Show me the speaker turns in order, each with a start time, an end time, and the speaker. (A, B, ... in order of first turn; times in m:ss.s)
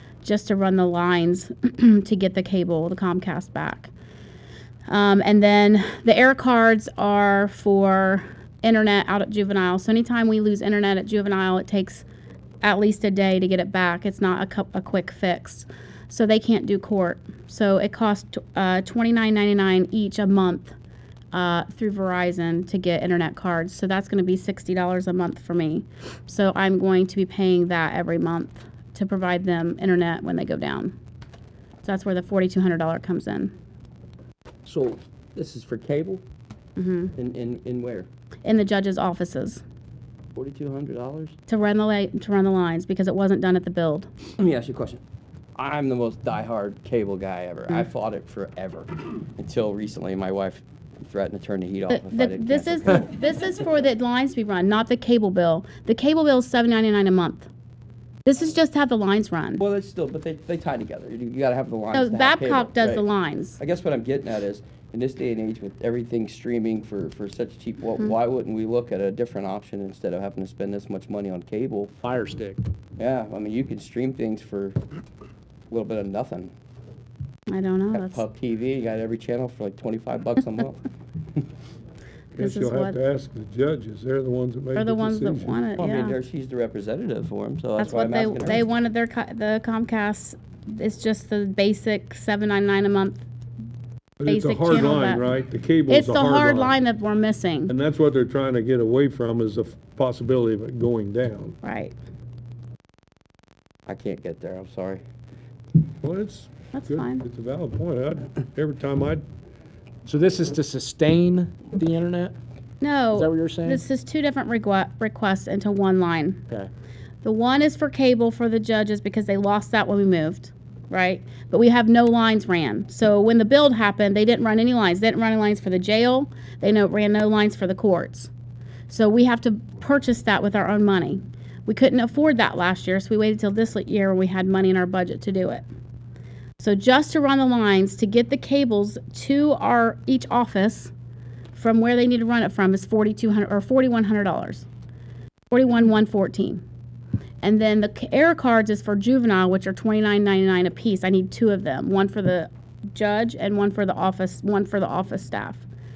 0:00.2-0:03.9 A
0:04.9-0:12.0 A
0:12.6-0:20.7 A
0:21.3-0:30.9 A
0:31.8-0:33.5 A
0:34.6-0:36.2 B
0:36.8-0:37.1 A
0:37.2-0:38.1 B
0:38.4-0:39.6 A
0:40.3-0:41.4 B
0:41.5-0:44.1 A
0:44.4-0:45.0 B
0:45.6-0:53.1 B
0:51.9-0:57.5 A
0:58.2-0:59.6 A
0:59.6-1:03.0 B
1:01.9-1:03.6 A
1:03.6-1:11.9 B
1:12.0-1:12.6 C
1:13.0-1:14.8 B
1:15.7-1:16.5 B
1:17.5-1:18.2 A
1:17.9-1:20.8 B
1:22.3-1:25.6 D
1:22.4-1:23.0 A
1:24.7-1:26.2 A
1:25.8-1:28.6 B
1:27.8-1:33.2 A
1:34.2-1:36.7 D
1:34.2-1:35.2 A
1:35.9-1:37.7 A
1:37.7-1:41.6 D
1:41.6-1:41.9 A
1:43.9-1:45.0 B
1:46.0-1:49.2 D
1:46.7-1:47.2 A
1:50.0-1:52.3 C
1:52.8-1:56.4 A
1:53.1-1:53.8 C
1:57.2-2:08.3 A
2:08.9-2:15.6 A
2:16.6-2:20.9 A
2:21.5-2:24.6 A
2:25.5-2:26.6 A
2:27.4-2:35.6 A